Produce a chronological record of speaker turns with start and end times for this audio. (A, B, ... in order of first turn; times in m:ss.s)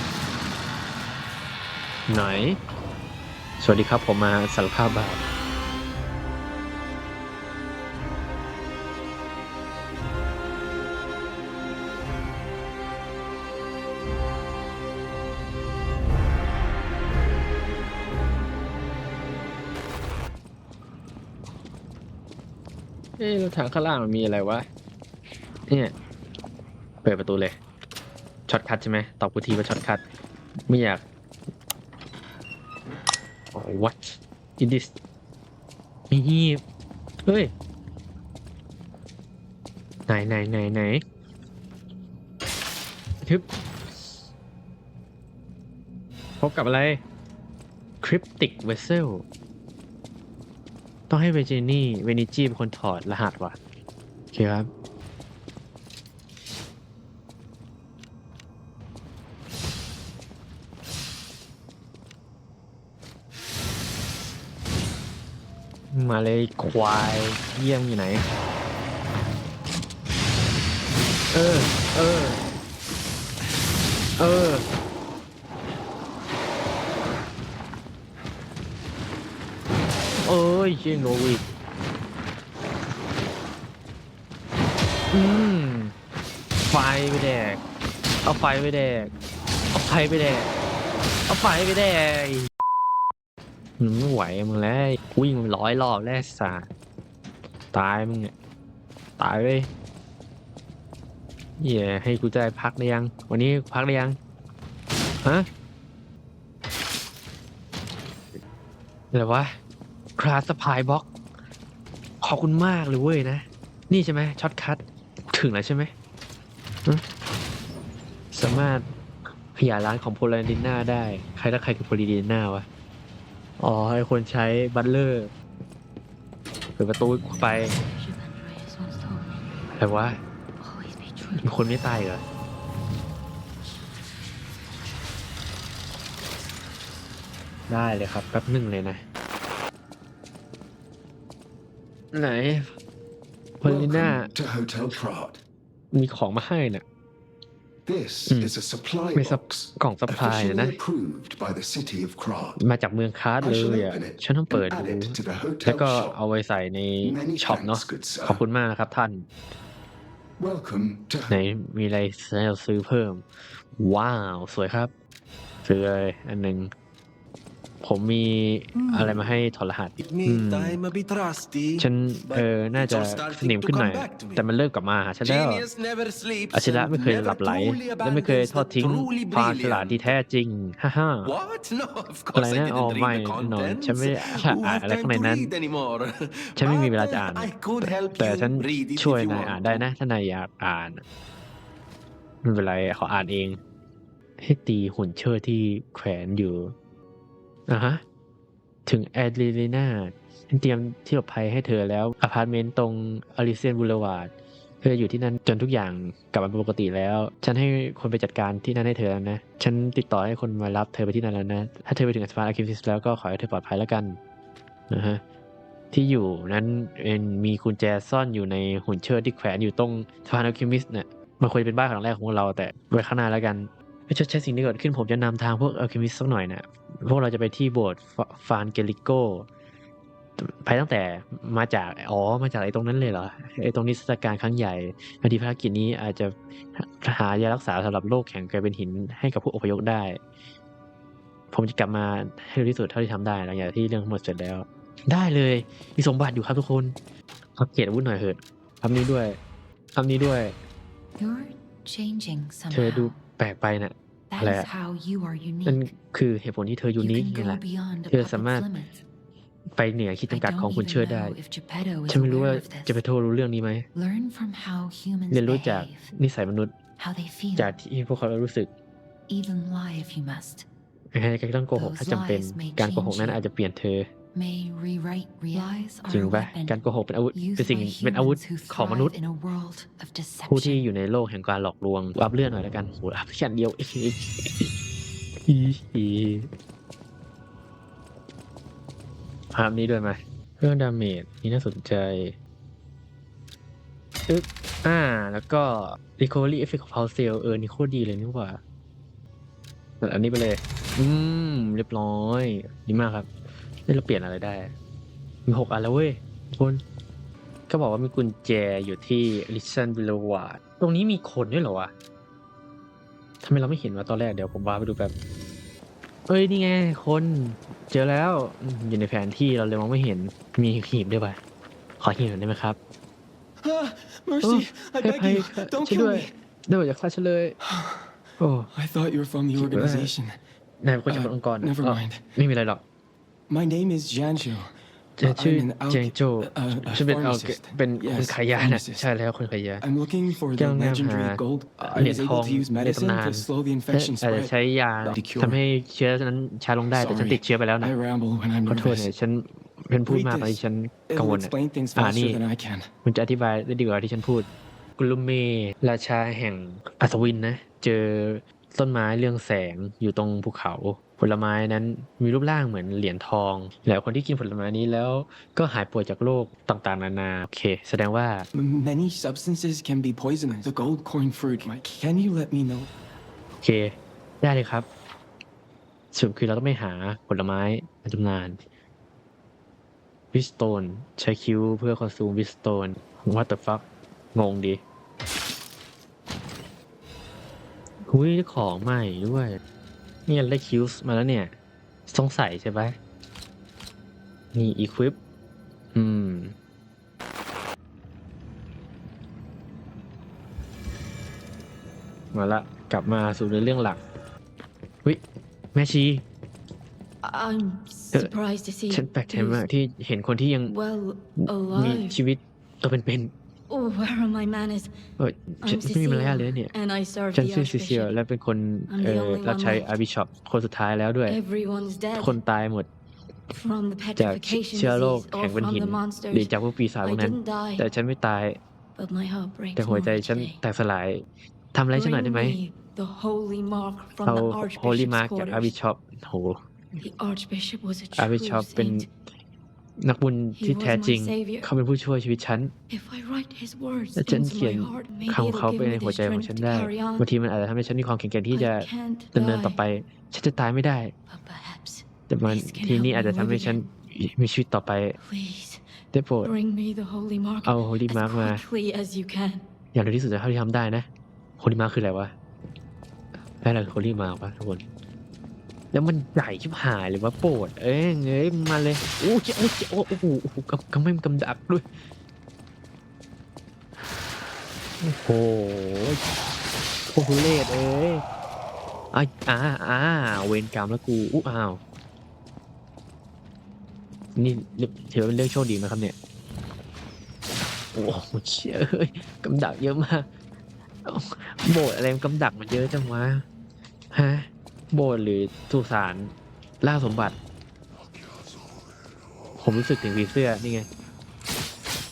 0:02.1-0:02.6 A
0:03.6-0:05.2 A
0:23.2-0:24.6 A
0:25.7-0:25.9 A
0:27.0-0:27.5 A
0:28.5-0:30.0 A
0:30.7-0:31.0 A
0:33.5-0:34.9 A
0:36.1-0:36.6 A
0:37.2-0:37.5 A
0:40.1-0:41.0 A
0:46.4-0:47.0 A
0:48.0-0:49.2 A
0:51.1-0:53.6 A
0:54.3-0:54.7 A
1:05.9-1:08.3 A
1:11.3-1:12.4 A
1:14.2-1:14.6 A
1:20.2-1:21.4 A
1:25.1-1:25.9 A
1:26.7-1:27.6 A
1:28.2-1:29.1 A
1:29.7-1:30.5 A
1:31.3-1:32.5 A
1:33.8-1:36.7 A
1:37.7-1:38.3 A
1:39.2-1:39.7 A
1:41.6-1:44.2 A
1:49.1-1:49.5 A
1:50.2-1:51.1 A
1:52.2-1:55.9 A
1:58.3-1:58.8 A
1:59.5-2:02.6 A
2:03.6-2:05.3 A
2:06.8-2:07.7 A
2:07.6-2:09.9 B
2:09.7-2:10.2 A
2:10.6-2:12.1 B
2:11.4-2:12.2 A
2:17.7-2:19.0 A
2:22.1-2:22.7 A
2:23.6-2:24.3 A
2:23.6-2:25.4 C
2:25.9-2:26.8 A
2:27.8-2:32.6 C
2:28.3-2:28.6 A
2:29.1-2:30.8 A
2:32.6-2:39.3 A
2:33.4-2:36.1 C
2:37.0-2:38.4 C
2:40.4-2:41.3 C
2:41.3-2:44.9 A
2:45.6-2:46.7 A
2:47.8-2:50.8 A
2:50.0-2:54.4 D
2:51.8-2:55.6 A
2:55.2-3:00.1 D
2:56.5-3:01.3 A
3:01.2-3:09.9 D
3:02.3-3:05.5 A
3:06.6-3:11.0 A
3:12.4-3:13.6 A
3:14.4-3:16.7 A
3:17.7-3:18.0 A
3:18.8-3:24.3 A
3:24.8-3:34.2 A
3:34.9-3:35.2 A
3:35.9-3:49.5 A
3:50.4-4:00.2 A
4:01.5-4:07.0 A
4:07.6-4:09.4 A
4:09.9-4:10.5 A
4:11.2-4:13.2 B
4:12.7-4:14.7 A
4:14.3-4:15.9 B
4:15.6-4:18.7 A
4:17.0-4:19.0 B
4:19.8-4:21.4 A
4:20.3-4:23.0 B
4:22.1-4:23.9 A
4:23.9-4:26.1 B
4:25.3-4:26.7 A
4:27.0-4:27.8 B
4:27.6-4:28.7 A
4:29.3-4:30.6 B
4:31.1-4:34.1 A
4:31.7-4:33.4 B
4:34.3-4:40.9 B
4:36.0-4:39.1 A
4:40.5-4:44.7 A
4:45.5-4:46.5 A
4:49.5-4:52.4 A
4:54.3-4:58.6 A
5:00.0-5:03.3 A
5:03.8-5:04.7 A
5:05.4-5:06.8 A
5:07.7-5:11.9 A
5:13.4-5:15.1 A
5:16.3-5:21.4 A
5:22.0-5:22.8 A
5:23.6-5:26.3 E
5:24.4-5:27.6 A
5:27.6-5:28.1 E
5:28.4-5:28.7 A
5:28.7-5:30.4 E
5:29.5-5:30.1 A
5:30.8-5:32.8 A
5:31.1-5:32.2 E
5:33.5-5:39.1 E
5:35.2-5:39.8 A
5:39.8-5:45.6 E
5:40.6-5:47.9 A
5:46.9-5:49.1 E
5:48.6-5:52.4 A
5:50.0-5:52.9 E
5:53.0-5:54.5 A
5:55.0-6:08.5 A
6:08.5-6:12.9 E
6:13.6-6:14.8 A
6:16.1-6:18.6 A
6:20.3-6:23.8 A
6:24.3-6:24.8 A
6:28.1-6:29.6 A
6:30.3-6:31.5 A
6:32.1-6:33.0 A
6:34.5-6:35.2 A
6:35.9-6:36.5 A
6:42.3-6:44.0 A
6:45.7-6:46.2 A
6:47.2-6:49.7 F
6:48.9-6:50.7 A
6:50.7-6:52.2 F
6:51.4-6:53.3 A
6:53.7-6:54.9 F
6:55.2-6:56.7 A
6:55.6-6:58.1 F
6:57.3-7:01.4 A
6:58.9-6:59.9 F
7:01.2-7:02.4 F
7:02.2-7:02.9 A
7:03.5-7:07.9 F
7:04.2-7:08.6 A
7:09.0-7:10.6 F
7:09.8-7:12.6 A
7:11.9-7:15.7 F
7:14.2-7:16.6 A
7:17.0-7:19.1 F
7:18.2-7:19.0 A
7:20.0-7:22.7 A
7:20.6-7:21.7 F
7:22.9-7:27.3 F
7:24.2-7:31.1 A
7:28.5-7:29.8 F
7:31.3-7:33.8 F
7:32.3-7:35.2 A
7:35.2-7:35.8 F
7:36.1-7:36.5 A
7:36.4-7:39.6 F
7:37.6-7:38.6 A
7:39.9-7:41.1 A
7:41.6-7:42.3 A
7:43.6-7:44.8 A
7:45.9-7:51.9 A
7:55.0-7:56.2 A
7:57.1-7:58.2 A
7:59.1-8:01.8 A
8:04.4-8:06.1 A
8:07.9-8:10.3 A
8:11.0-8:13.4 A
8:14.1-8:17.3 A
8:19.6-8:20.9 A